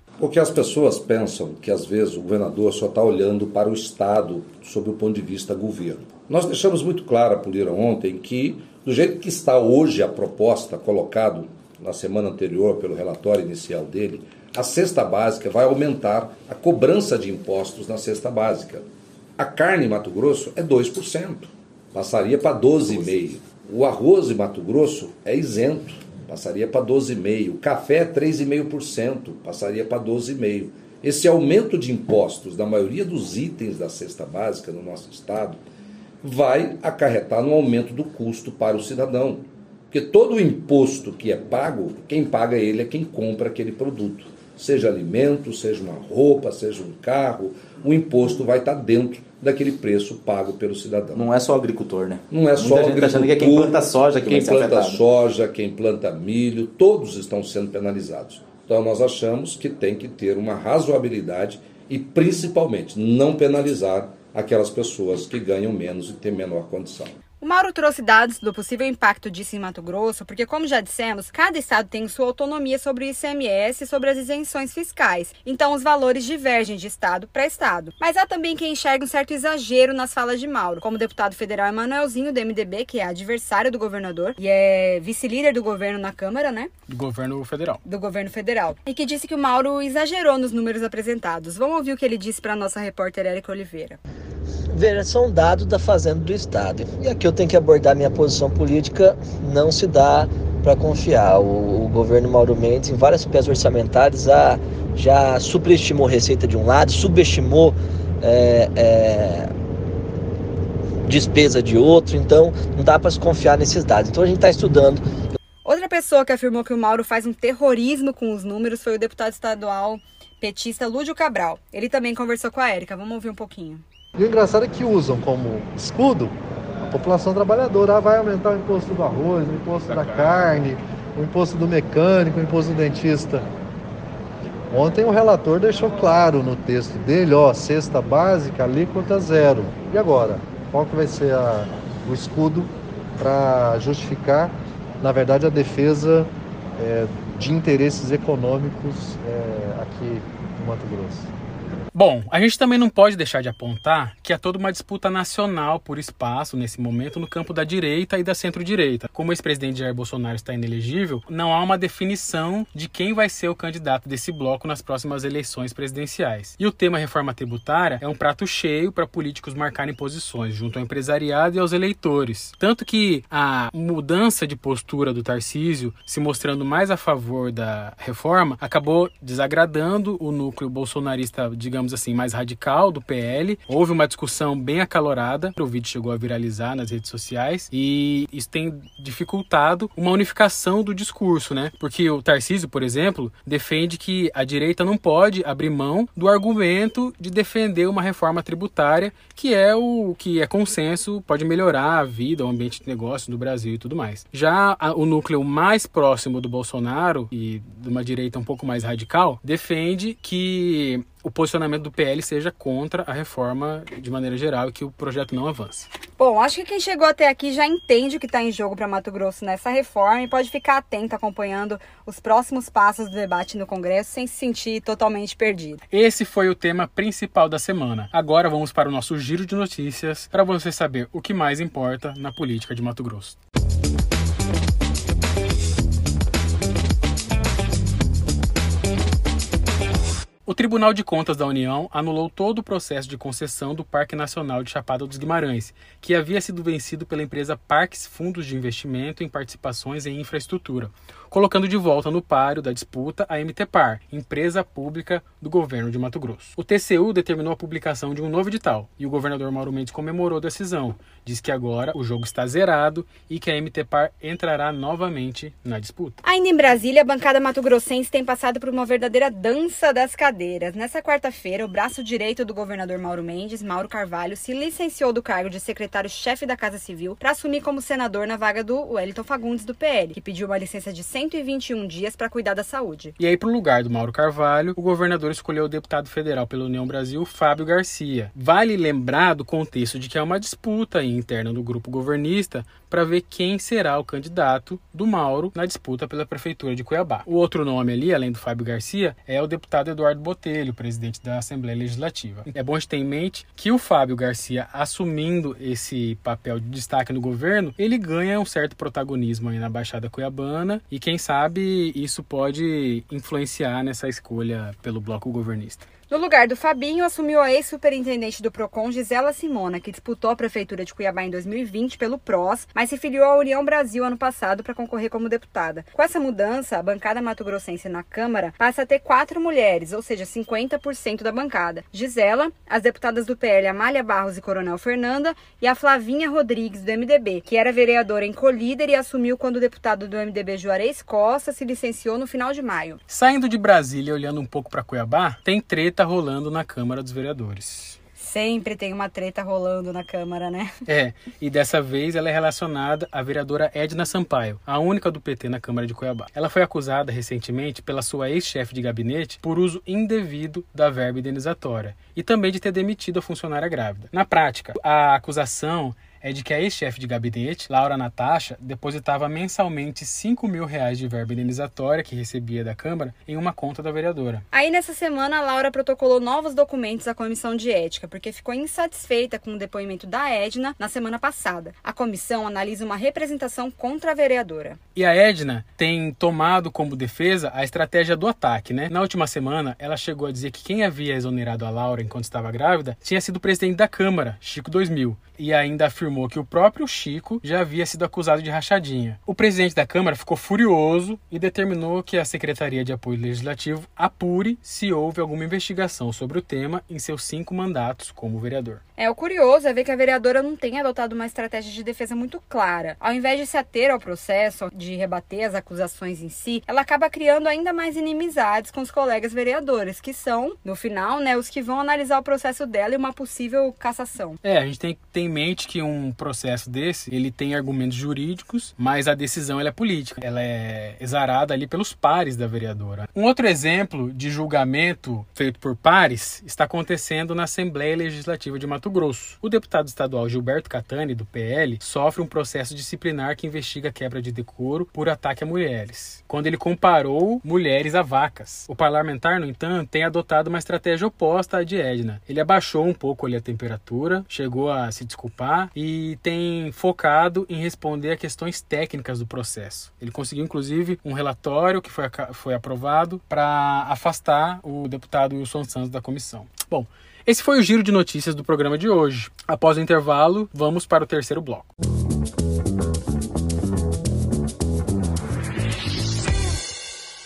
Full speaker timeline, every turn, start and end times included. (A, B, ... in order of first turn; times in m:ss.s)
0:00.2-0:18.9 A
0:19.4-0:35.6 A
0:36.2-0:51.3 A
0:51.1-0:55.0 B
0:52.3-1:07.2 A
1:07.4-1:26.7 C
1:26.9-1:27.8 D
1:27.8-1:34.0 C
1:34.7-1:49.5 E
1:51.0-1:55.0 E
1:55.6-2:03.8 C
2:04.2-2:13.4 F
2:14.7-2:31.3 F
2:31.9-3:35.9 D
3:36.2-3:45.8 C
3:45.9-3:53.4 D
4:00.4-4:26.2 D
4:26.2-4:43.2 C
4:43.2-5:15.9 D
5:16.1-5:43.0 C
5:43.1-5:48.0 D
5:48.2-5:50.7 C
5:50.8-6:14.4 D
6:14.5-6:24.8 C
6:24.9-6:48.8 D
6:49.0-7:04.4 C
7:04.4-7:51.7 D